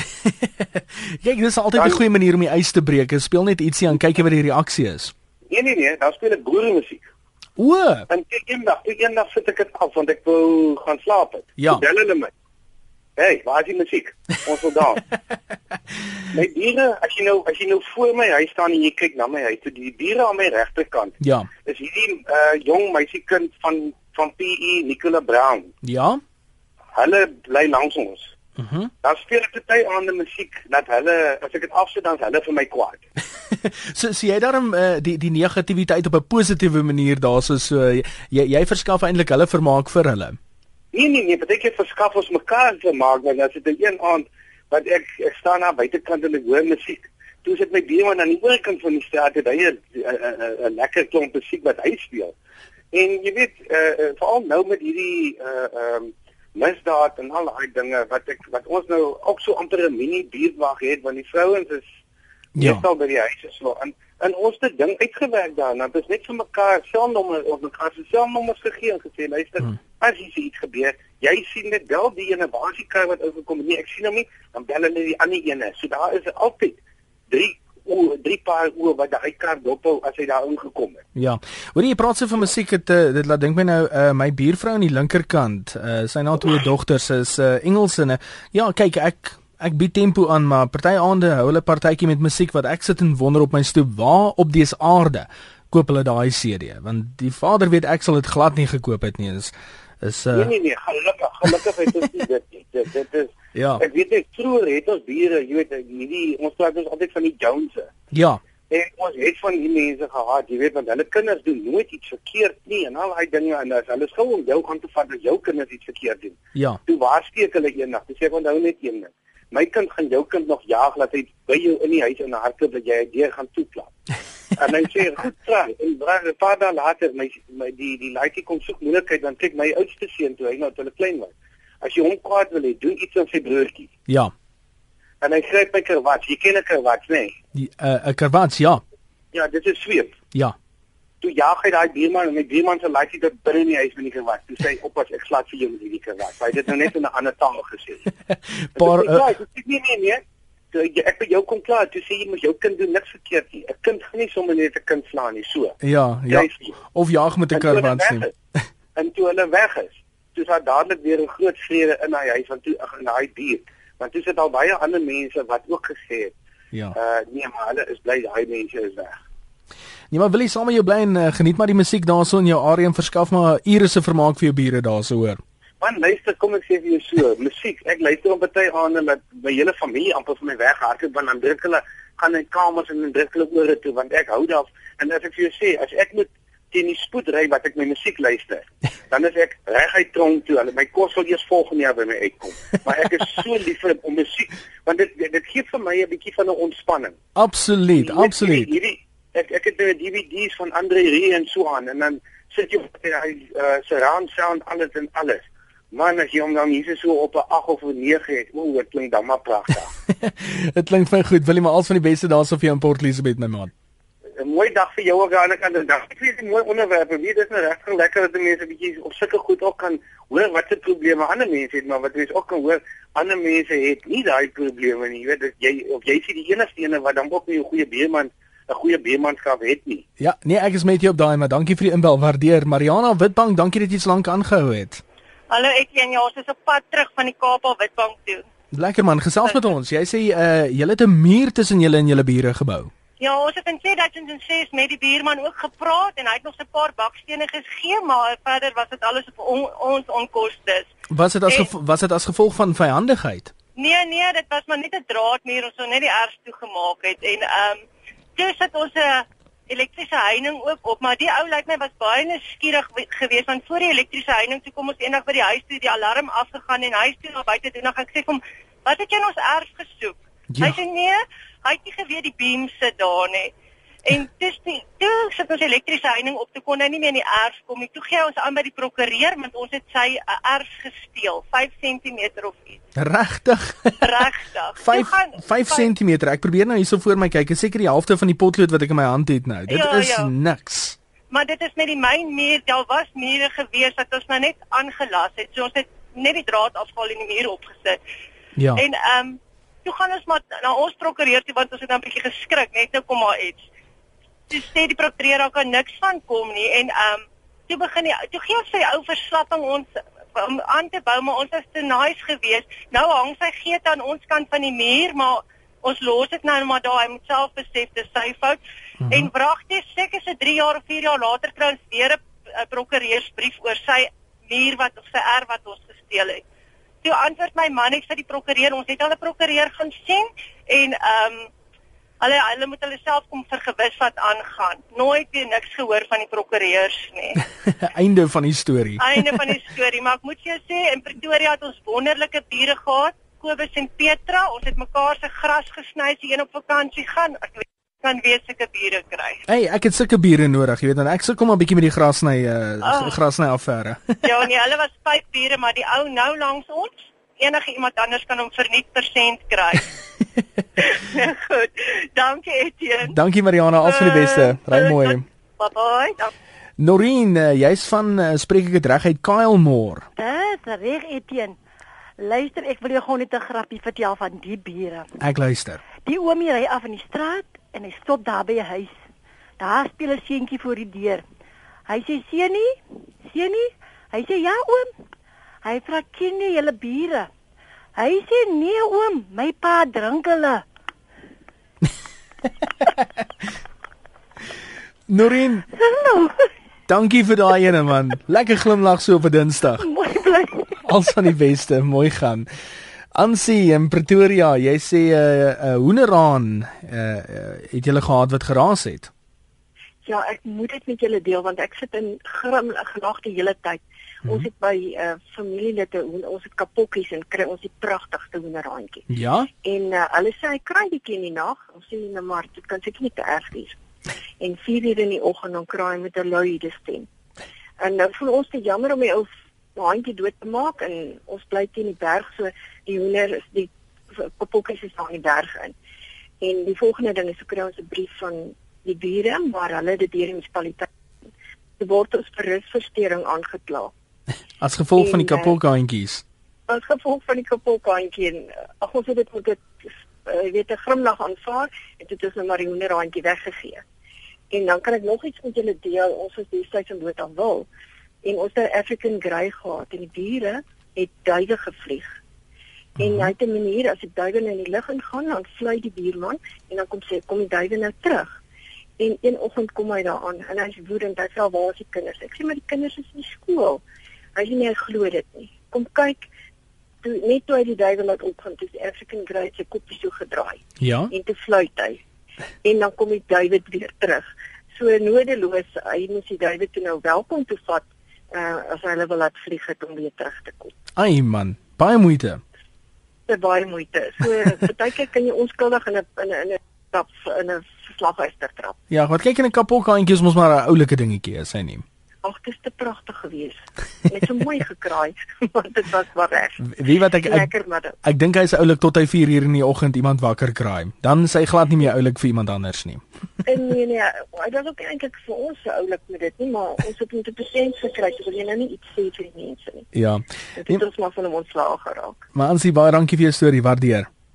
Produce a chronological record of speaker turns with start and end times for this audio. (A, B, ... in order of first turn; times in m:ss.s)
0:00.2-0:05.1 A
0:05.5-0:07.0 B
0:07.6-0:08.1 A
0:08.1-0:12.3 B
0:11.6-0:11.8 A
0:13.2-0:15.0 B
0:16.3-0:25.7 B
0:21.2-0:21.5 A
0:25.8-0:26.2 A
0:26.9-0:28.3 B
0:28.6-0:28.9 A
0:29.0-0:33.0 B
0:33.5-0:40.4 A
0:40.9-0:52.3 B
0:52.9-1:01.8 B
1:02.6-1:02.8 A
1:02.6-1:16.8 B
1:17.3-1:21.0 B
1:21.1-1:40.5 A
1:40.3-1:47.9 B
1:43.6-1:43.8 A
1:48.1-1:48.4 A
1:48.7-2:03.9 B
1:56.6-1:56.8 A
2:04.6-2:13.9 B
2:14.1-2:14.3 A
2:15.2-2:17.4 B
2:17.6-2:18.8 A
2:19.3-2:20.1 B
2:21.2-2:28.0 B
2:28.3-2:29.2 A
2:28.8-2:35.8 B
2:35.8-2:38.3 A
2:36.3-2:36.7 B
2:37.5-2:38.3 B
2:39.0-2:46.3 B
2:46.9-2:49.2 B
2:50.1-2:55.4 A
2:55.8-3:17.2 B
3:17.4-3:18.7 A
3:18.0-3:29.9 B
3:30.2-3:33.7 A
3:34.4-3:50.0 B
3:50.2-3:55.0 A
3:55.5-3:58.4 C
3:58.7-4:02.9 A
4:03.2-4:10.9 C
4:11.1-4:13.5 A
4:13.8-4:17.8 C
4:18.4-4:33.5 C
4:30.5-4:30.8 A
4:34.1-4:42.8 C
4:43.0-4:51.0 A
4:44.0-4:45.9 C
4:49.7-4:50.3 C
4:51.3-4:58.0 C
4:58.6-4:58.8 A
4:58.7-5:03.7 C
5:04.5-5:26.4 C
5:19.0-5:19.3 A
5:27.0-5:31.5 C
5:32.2-5:37.4 C
5:37.7-5:39.5 A
5:39.0-5:49.4 C
5:49.5-5:54.2 A
5:52.8-5:53.2 C
5:54.2-5:59.9 C
6:00.8-6:03.1 C
6:03.1-6:05.2 A
6:03.8-6:06.3 C
6:06.8-6:10.1 A
6:10.2-6:11.6 D
6:12.2-6:15.1 D
6:15.2-6:15.8 A
6:16.0-6:18.9 D
6:19.6-6:21.2 D
6:21.9-6:24.9 D
6:25.6-6:27.3 D
6:28.0-6:30.6 D
6:35.1-6:35.7 A
6:35.7-6:36.5 D
6:36.9-6:39.9 A
6:39.8-6:41.2 D
6:40.8-6:42.5 A
6:43.1-6:49.1 A
6:50.0-6:59.0 E
6:59.1-6:59.5 A
6:59.6-7:03.8 E
7:04.4-7:07.1 E
7:07.8-7:15.7 E
7:16.4-7:20.9 E
7:21.8-7:23.9 E
7:24.6-7:26.2 A
7:25.0-7:25.6 E
7:26.7-7:33.8 E
7:34.5-7:37.6 E
7:38.2-7:42.1 E
7:43.0-7:48.4 E
7:43.0-7:43.3 A
7:49.0-7:53.8 E
7:54.4-7:56.3 E
7:57.0-8:02.0 E
8:00.8-8:01.1 A
8:02.6-8:10.7 E
8:11.0-8:12.4 A
8:13.3-8:18.8 E
8:18.9-8:21.8 A
8:22.2-8:26.7 E
8:26.6-8:27.5 A
8:27.2-8:28.0 E
8:28.0-8:33.0 A
8:33.4-8:39.9 E
8:39.9-8:40.8 A
8:40.6-8:42.2 E
8:42.4-8:44.1 A